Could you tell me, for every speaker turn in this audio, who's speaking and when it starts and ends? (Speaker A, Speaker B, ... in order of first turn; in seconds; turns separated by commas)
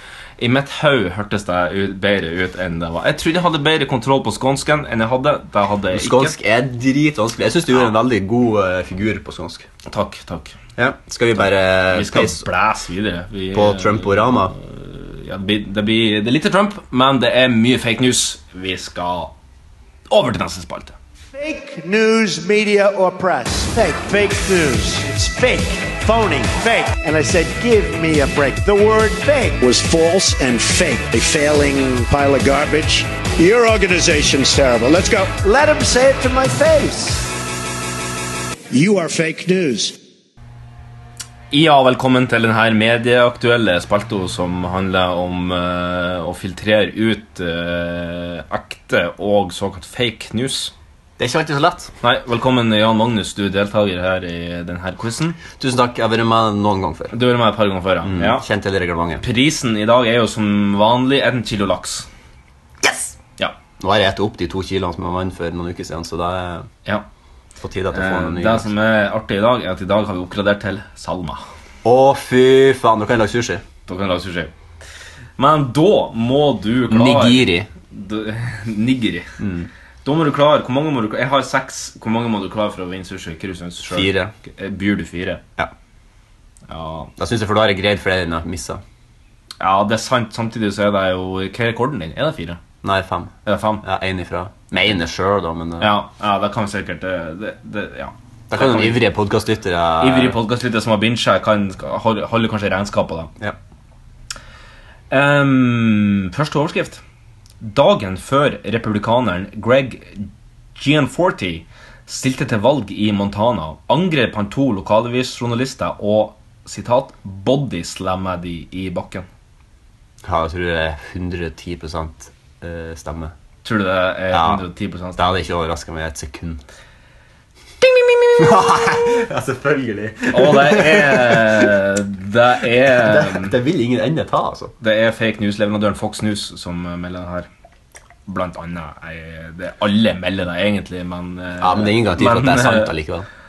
Speaker A: 0.4-6.3, Speaker B: 5.9-9.7, Speaker A: 9.9-10.6, Speaker B: 10.8-12.5, Speaker A: 11.9-19.3, Speaker B: 13.5-14.5, Speaker A: 20.1-21.0, Speaker C: 21.3-37.3, Speaker C: 38.7-40.0, Speaker A: 41.5-50.7, Speaker B: 51.2-51.9, Speaker A: 52.0-55.4, Speaker B: 55.6-57.1, Speaker A: 57.1-58.5, Speaker B: 58.0-59.2, Speaker A: 59.2-62.1, Speaker B: 62.8-63.2, Speaker B: 63.8-66.7, Speaker B: 67.6-68.7, Speaker A: 67.9-71.4, Speaker B: 71.8-73.6, Speaker A: 73.9-74.5, Speaker A: 75.4-79.3, Speaker B: 76.9-77.7, Speaker B: 79.4-79.7, Speaker A: 80.0-85.4, Speaker B: 83.9-84.3, Speaker A: 86.7-87.1, Speaker B: 87.2-88.8, Speaker A: 89.6-92.6, Speaker B: 92.8-95.9, Speaker A: 93.5-93.8, Speaker A: 95.8-99.0, Speaker B: 98.5-100.4, Speaker A: 100.0-103.3, Speaker A: 105.1-107.0, Speaker A: 107.6-119.3, Speaker B: 120.2-123.3, Speaker A: 123.6-125.3, Speaker B: 124.3-124.6, Speaker B: 125.2-126.6, Speaker A: 127.8-128.3, Speaker B: 128.4-131.7, Speaker A: 130.3-133.6, Speaker B: 132.9-134.7, Speaker A: 134.8-137.5, Speaker A: 138.3-142.9, Speaker B: 141.6-143.3